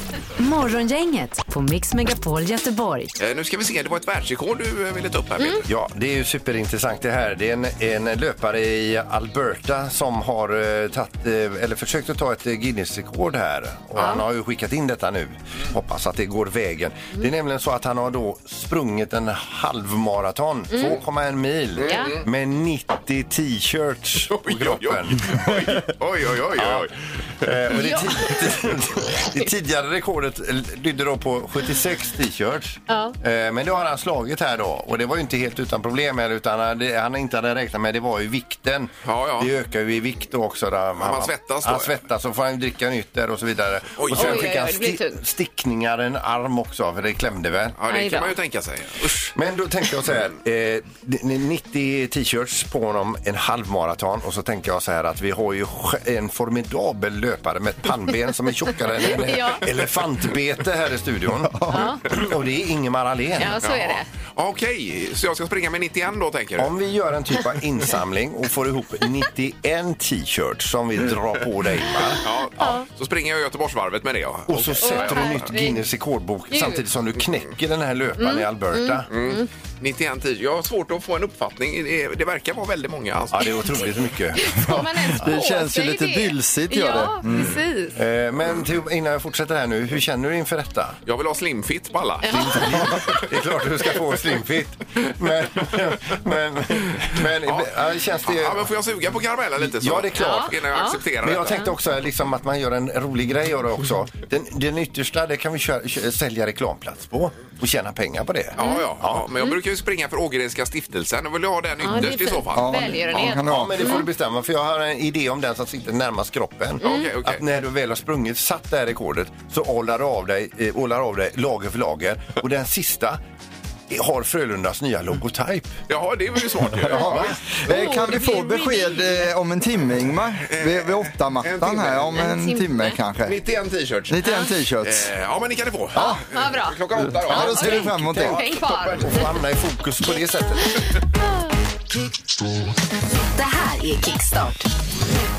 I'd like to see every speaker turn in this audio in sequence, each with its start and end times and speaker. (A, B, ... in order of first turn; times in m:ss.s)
0:00.4-0:03.1 A
0:03.2-0:05.7 B
0:05.7-0:25.9 C
0:14.0-0:14.2 D
0:20.7-0:21.0 D
0:21.8-0:22.2 B
0:21.8-0:22.2 D
0:24.3-0:26.9 B
0:26.5-0:26.9 C
0:27.4-0:47.8 C
0:27.8-0:28.4 D
0:32.9-0:33.2 D
0:39.0-0:39.5 B
0:41.0-0:41.9 B
0:44.0-0:44.5 B
0:44.2-0:45.2 D
0:47.8-0:49.3 B
0:47.9-0:48.3 D
0:49.3-1:03.6 C
0:59.0-0:59.6 D
1:01.4-1:02.0 E
1:01.7-1:02.0 D
1:03.4-1:04.1 D
1:03.6-1:06.7 B
1:06.6-1:12.2 C
1:12.2-1:15.5 B
1:12.6-1:12.9 D
1:14.5-1:19.1 C
1:14.8-1:15.8 D
1:16.5-1:16.8 D
1:18.2-1:19.5 D
1:19.1-1:23.8 B
1:23.3-1:25.3 C
1:24.4-1:28.0 D
1:25.1-1:27.6 E
1:27.9-1:31.0 C
1:31.1-1:33.2 B
1:32.2-1:32.7 D
1:32.2-1:38.7 C
1:37.4-1:41.6 B
1:39.6-1:40.6 C
1:40.2-1:41.7 D
1:41.2-1:49.3 C
1:48.6-1:53.0 B
1:48.6-1:48.9 D
1:51.8-1:54.1 D
1:52.5-1:53.8 E
1:53.1-2:03.2 C
1:56.8-1:57.1 D
1:56.8-1:57.4 B
2:03.9-2:05.8 C
2:05.9-2:07.3 B
2:06.9-2:07.3 C
2:06.9-2:13.4 E
2:07.7-2:09.3 D
2:10.5-2:12.2 B
2:12.2-2:13.0 D
2:13.3-2:14.2 B
2:14.1-2:15.1 E
2:14.8-2:19.3 B
2:15.9-2:19.3 D
2:16.0-2:16.2 E
2:17.2-2:18.4 E
2:19.0-2:20.8 C
2:23.3-2:24.6 A